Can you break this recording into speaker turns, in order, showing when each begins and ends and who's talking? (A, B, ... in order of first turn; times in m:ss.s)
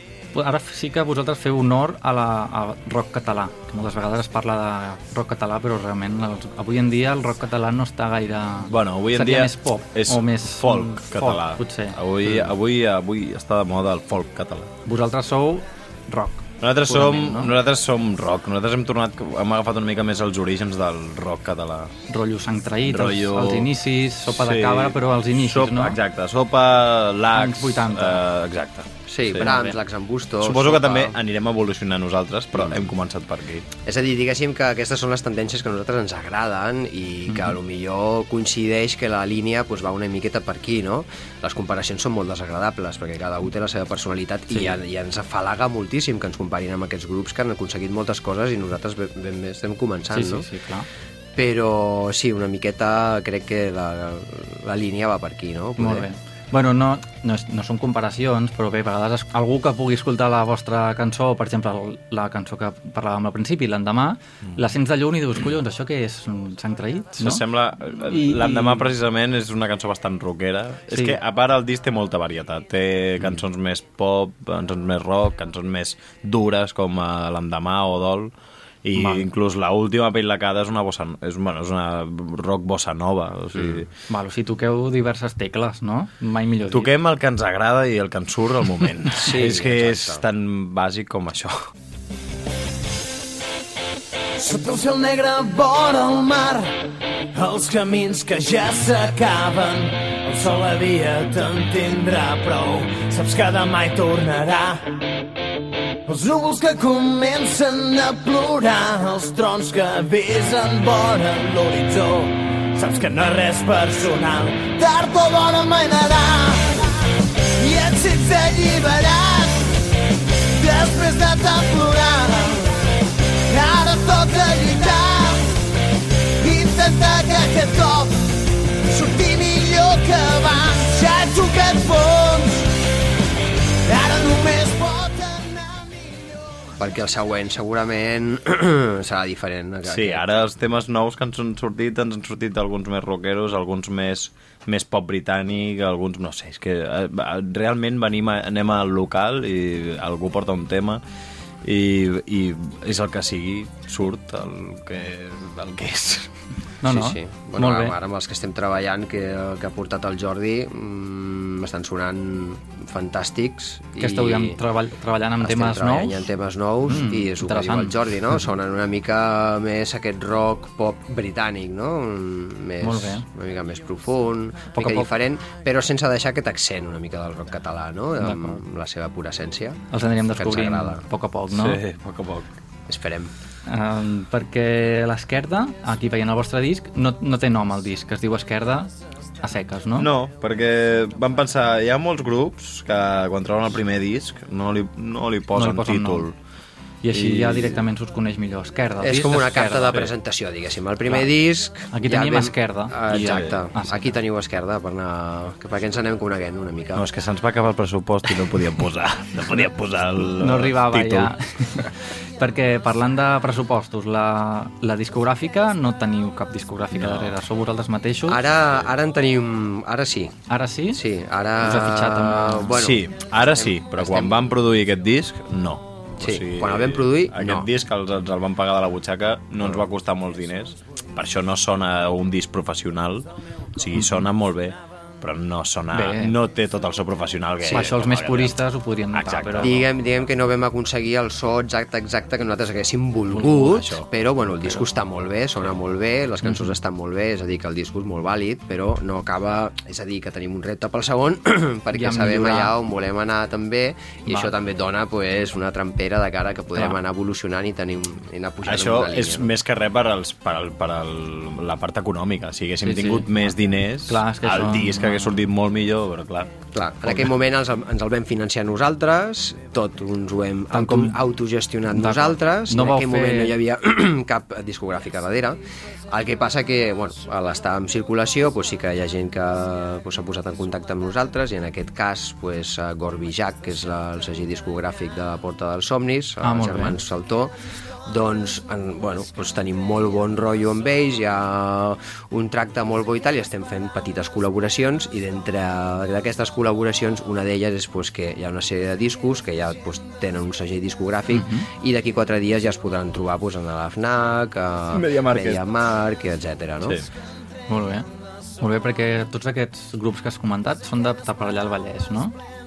0:00.3-0:12.5 A
0:08.7-0:14.7 B
0:14.9-0:17.5 A
0:16.6-0:21.9 B
0:22.1-0:26.0 A
0:22.8-0:23.7 B
0:24.3-0:29.5 B
0:27.4-0:28.2 A
0:29.1-0:31.1 C
0:29.4-0:29.8 A
0:30.4-0:33.7 B
0:32.6-0:32.9 C
0:33.9-0:50.5 C
0:44.5-0:44.8 A
0:50.1-0:50.9 A
0:51.4-0:56.0 C
0:55.8-1:07.4 A
1:07.2-1:18.3 B
1:08.1-1:08.9 A
1:10.9-1:11.2 A
1:18.8-1:23.9 B
1:19.0-1:19.2 A
1:23.6-1:23.8 C
1:24.1-1:26.9 A
1:26.7-1:31.7 B
1:29.2-1:30.2 C
1:34.4-1:36.8 D
1:37.3-1:44.8 D
1:46.1-1:56.8 D
1:57.6-1:59.7 D
2:00.5-2:02.7 D
2:03.5-2:05.5 D
2:06.4-2:08.3 D
2:08.9-2:12.7 D
2:13.9-2:16.1 D
2:16.8-2:20.2 C
2:19.9-2:31.0 B
2:31.6-2:36.3 B
2:36.8-2:38.0 A
2:36.9-2:44.6 C
2:44.0-2:46.2 A
2:45.4-3:01.0 C
2:46.9-2:48.0 A
2:52.8-2:53.2 A
2:54.7-2:55.1 A
2:58.2-2:58.6 A
2:59.9-3:01.8 A
3:01.5-3:02.5 B
3:02.9-3:03.3 C
3:03.7-3:08.9 A
3:09.4-3:10.1 A
3:10.0-3:16.4 B
3:15.6-3:16.3 A
3:17.0-3:20.0 A
3:17.1-3:17.8 B
3:19.0-3:27.0 C
3:21.9-3:24.2 A
3:23.1-3:23.6 B
3:27.0-3:31.4 B
3:30.4-3:38.4 A
3:36.9-3:37.4 B
3:38.3-3:40.4 C
3:40.5-3:41.0 A
3:40.9-3:44.6 C
3:41.6-3:42.8 A
3:42.8-3:58.6 B
3:46.2-3:47.7 C
3:55.9-3:56.4 A
3:57.7-3:59.8 A
3:59.1-3:59.9 B
3:59.6-4:19.5 C
4:03.3-4:04.0 A
4:06.4-4:06.7 A
4:11.9-4:12.7 A
4:14.3-4:14.5 A
4:18.6-4:27.3 B
4:22.8-4:23.5 A
4:24.1-4:25.4 A
4:26.7-4:35.6 C
4:30.7-4:31.2 A
4:31.9-4:33.6 A
4:36.1-4:47.5 C
4:46.4-4:47.0 A
4:48.1-5:07.0 C
5:01.3-5:01.7 A
5:04.9-5:05.6 B
5:07.7-5:08.1 A
5:08.6-5:12.4 A